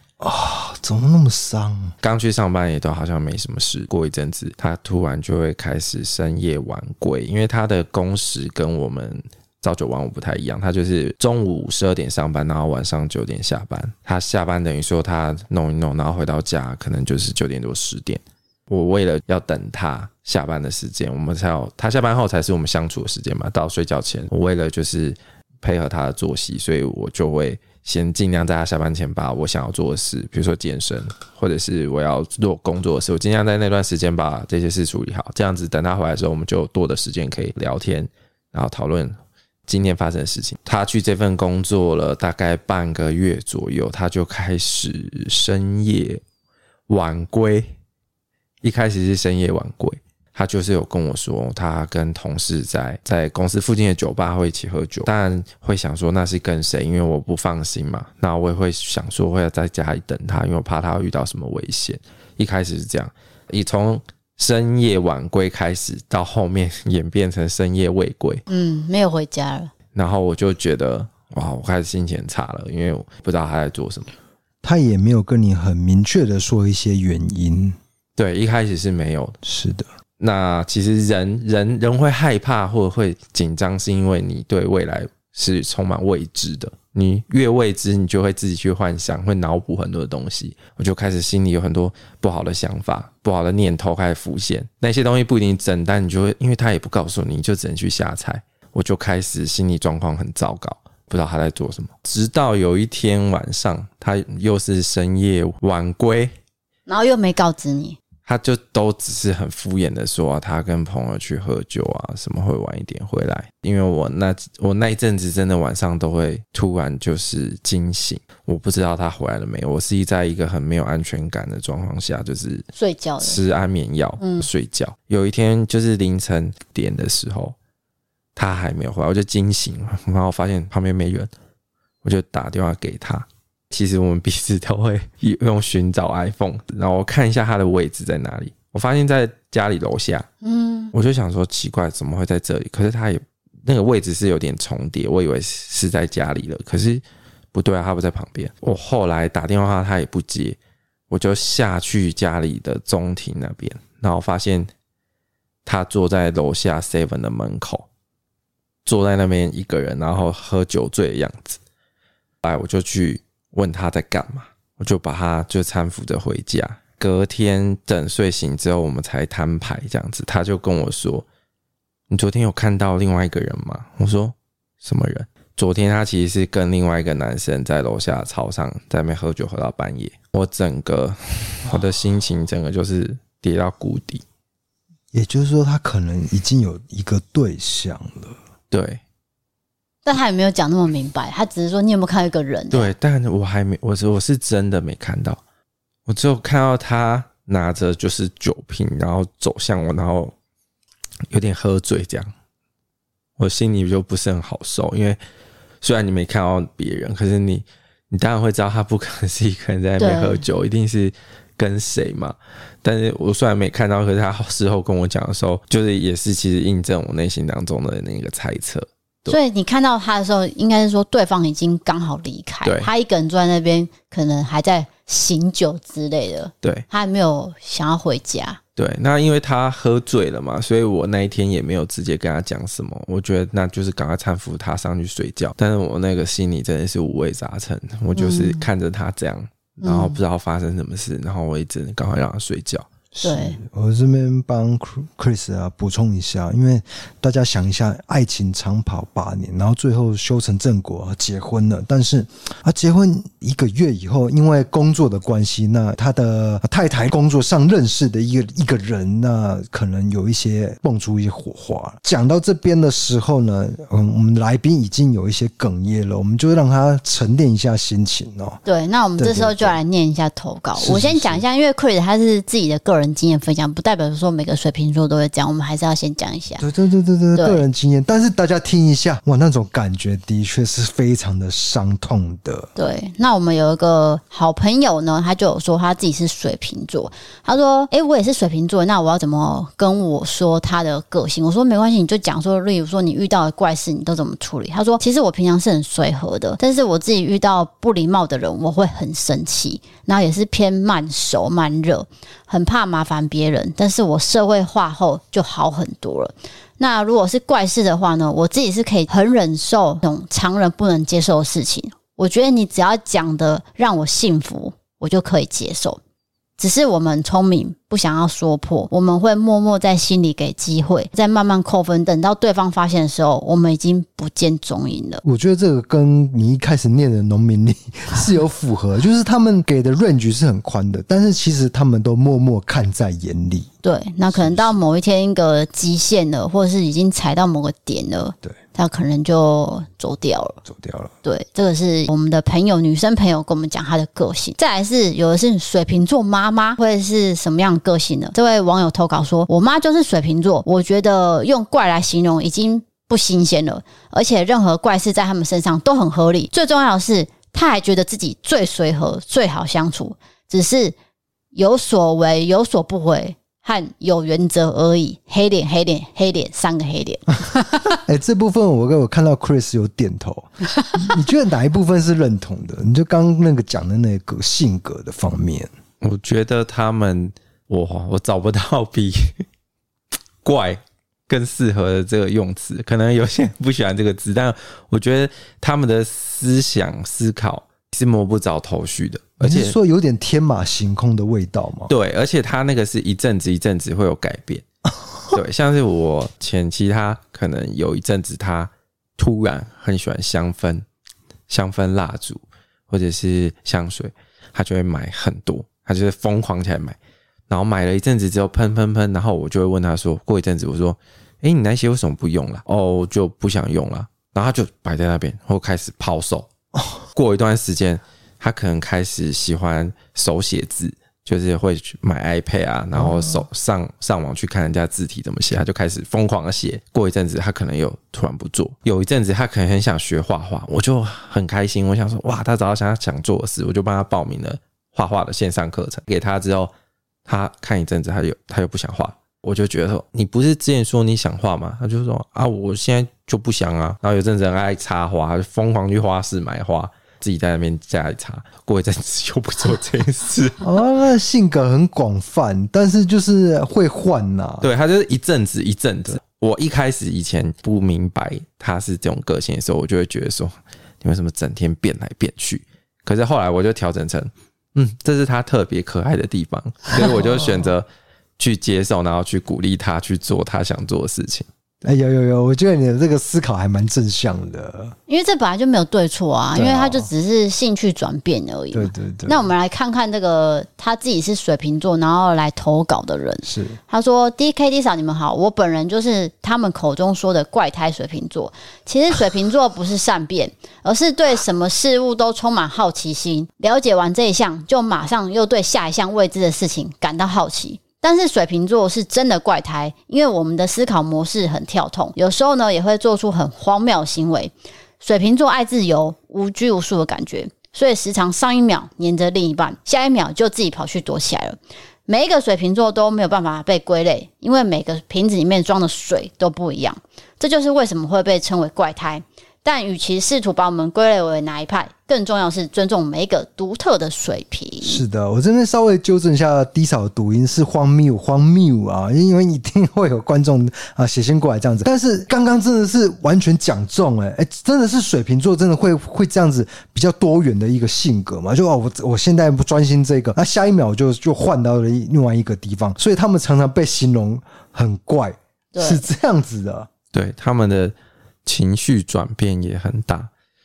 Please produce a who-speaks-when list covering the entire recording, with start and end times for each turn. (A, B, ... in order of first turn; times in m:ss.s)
0:00.2-0:01.9 A
0:02.0-0:39.2 B
0:39.7-0:46.2 B
0:46.9-0:47.7 B
0:48.6-1:08.4 B
1:08.5-1:09.7 C
1:09.9-1:14.1 B
1:14.6-1:17.8 A
1:18.2-1:19.4 B
1:19.4-1:19.9 A
1:20.2-1:46.3 B
1:46.9-1:48.0 C
1:48.2-2:02.7 B
2:02.8-2:03.4 C
2:03.2-2:07.5 B
2:04.2-2:04.4 C
2:08.4-2:11.3 B
2:12.0-2:20.3 B
2:20.4-2:20.9 C
2:20.9-2:30.6 B
2:31.1-2:34.7 B
2:35.6-2:37.9 B
2:38.8-2:41.6 B
2:42.4-2:51.2 B
2:52.1-3:04.2 B
3:05.1-3:08.4 A
3:08.7-3:09.0 B
3:10.0-3:12.9 C
3:12.7-3:15.4 B
3:16.1-3:20.3 B
3:21.3-3:22.3 B
3:23.4-3:25.2 B
3:25.8-3:39.4 B
3:30.0-3:30.4 C
3:39.3-3:48.6 C
3:42.6-3:42.9 B
3:48.8-4:02.9 B
3:58.1-3:58.6 C
3:59.8-4:00.2 C
4:03.1-4:28.6 A
4:03.2-4:03.6 C
4:28.6-4:36.6 C
4:29.2-4:29.8 A
4:30.8-4:31.4 A
4:36.6-4:42.7 A
4:37.4-4:37.6 C
4:42.8-5:16.0 C
5:16.6-5:25.2 C
5:25.2-5:33.7 A
5:33.8-5:40.6 C
5:34.3-5:34.7 A
5:40.6-5:41.1 A
5:41.2-6:00.9 C
6:01.5-6:07.8 C
6:07.9-6:15.7 A
6:16.0-6:19.4 B
6:20.4-6:29.7 B
6:29.4-6:31.9 A
6:31.9-6:34.6 B
6:35.3-6:40.8 B
6:41.5-6:47.0 B
6:47.5-6:56.5 B
6:56.7-6:57.0 A
6:57.1-7:16.7 B
7:02.9-7:03.4 A
7:17.2-7:30.6 B
7:30.6-7:34.7 A
7:34.6-7:47.8 B
7:46.9-7:47.2 A
7:48.4-7:51.5 B
7:51.8-7:54.9 A
7:55.1-8:45.0 C
7:56.5-7:57.1 A
7:58.7-7:59.5 A
8:03.4-8:03.8 A
8:44.8-9:06.9 A
9:05.7-9:06.0 C
9:07.1-9:07.9 B
9:08.4-9:10.3 B